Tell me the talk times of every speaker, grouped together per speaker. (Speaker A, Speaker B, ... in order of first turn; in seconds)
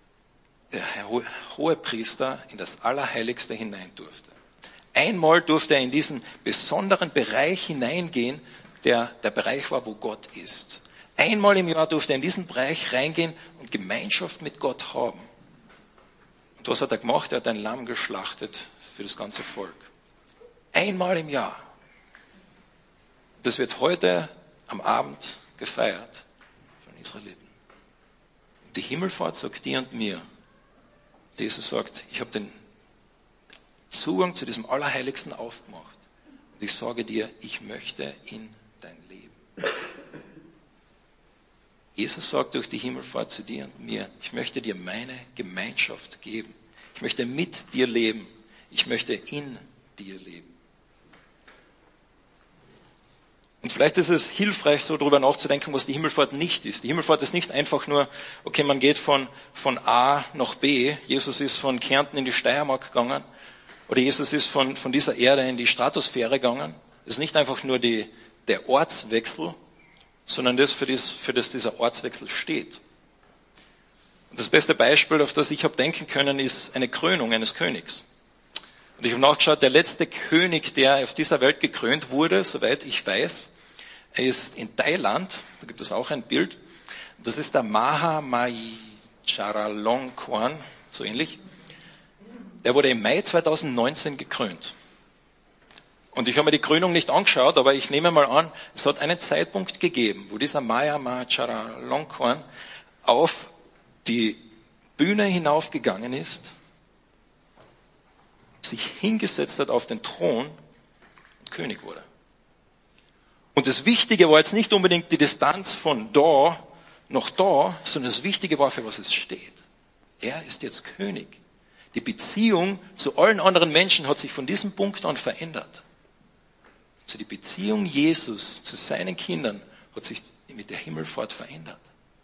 Speaker A: 0.7-4.3, 5.0-15.3, 16.6-19.9, 20.7-21.6, 23.4-26.3, 26.8-27.5, 28.7-30.2, 31.4-32.5, 33.9-36.0, 36.6-39.4, 42.0-50.5, 53.6-63.2, 63.9-69.6, 70.3-72.8, 74.3-78.0, 79.0-83.5, 84.1-86.6, 87.2-91.4, 92.6-94.7, 96.1-102.4, 103.0-103.5, 104.0-104.4, 105.0-106.5, 108.6-110.6, 111.4-112.0, 113.5-119.6, 120.2-121.4, 121.9-125.8, 127.1-131.8